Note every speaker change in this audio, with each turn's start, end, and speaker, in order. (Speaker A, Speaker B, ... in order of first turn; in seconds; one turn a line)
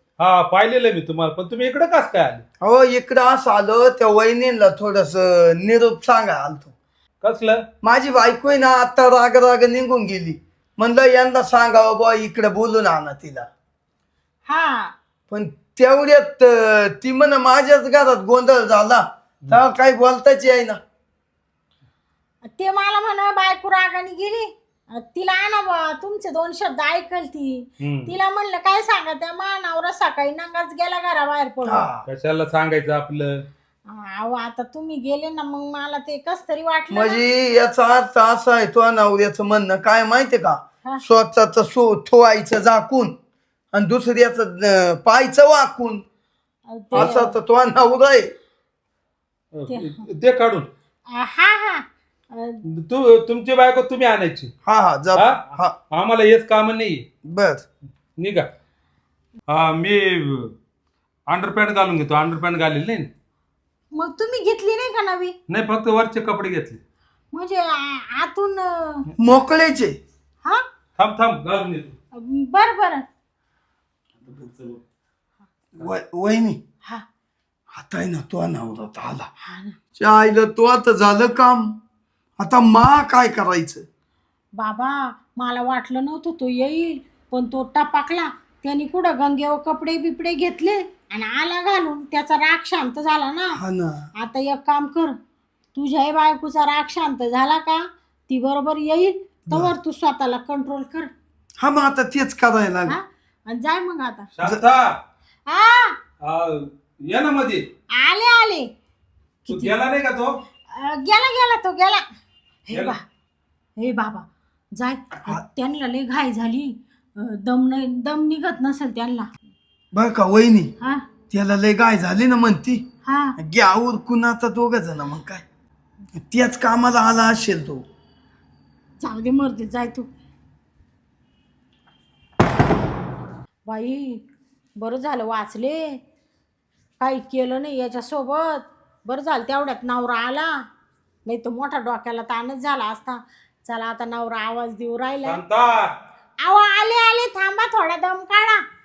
Speaker A: 0.2-2.4
Speaker B: 2.6-6.7
Speaker A: 7.2-7.6
Speaker B: 7.8-13.5
Speaker C: 14.4-14.9
Speaker B: 15.3-20.8
Speaker C: 22.4-31.9
Speaker A: 27.8-28.1
Speaker B: 31.6-32.1
Speaker A: 32.0-33.4
Speaker C: 33.9-37.2
Speaker B: 36.9-43.1
Speaker B: 43.7-46.0
Speaker C: 46.7-47.3
Speaker B: 46.9-48.3
Speaker A: 49.5-50.7
Speaker C: 49.7-50.0
Speaker C: 51.1-52.6
Speaker A: 52.7-54.5
Speaker B: 54.6-55.7
Speaker A: 55.1-57.0
Speaker B: 57.2-57.6
Speaker A: 58.2-58.5
Speaker A: 59.5-60.5
Speaker A: 61.3-63.1
Speaker C: 63.9-65.3
Speaker A: 65.5-66.8
Speaker C: 67.3-69.1
Speaker B: 69.2-70.0
Speaker A: 71.0-71.9
Speaker C: 72.1-73.0
Speaker A: 74.2-74.8
Speaker B: 75.8-76.6
Speaker B: 77.7-79.3
Speaker C: 79.4-79.8
Speaker B: 80.0-81.7
Speaker B: 82.4-83.8
Speaker C: 84.6-93.6
Speaker B: 93.5-94.1
Speaker C: 94.2-95.2
Speaker C: 95.7-101.1
Speaker B: 101.6-103.0
Speaker C: 102.9-104.3
Speaker A: 104.3-104.9
Speaker C: 105.5-106.0
Speaker A: 106.2-107.7
Speaker C: 107.9-108.7
Speaker C: 109.4-109.7
Speaker A: 109.5-110.4
Speaker C: 110.7-112.0
Speaker C: 112.7-113.0
Speaker C: 113.8-119.3
Speaker B: 119.9-120.7
Speaker B: 121.3-122.8
Speaker C: 123.0-123.3
Speaker B: 123.4-125.4
Speaker B: 126.2-127.8
Speaker C: 129.0-130.1
Speaker C: 133.7-134.2
Speaker C: 134.8-136.0
Speaker C: 137.0-140.5
Speaker C: 141.2-145.4
Speaker A: 145.2-145.9
Speaker C: 146.4-148.6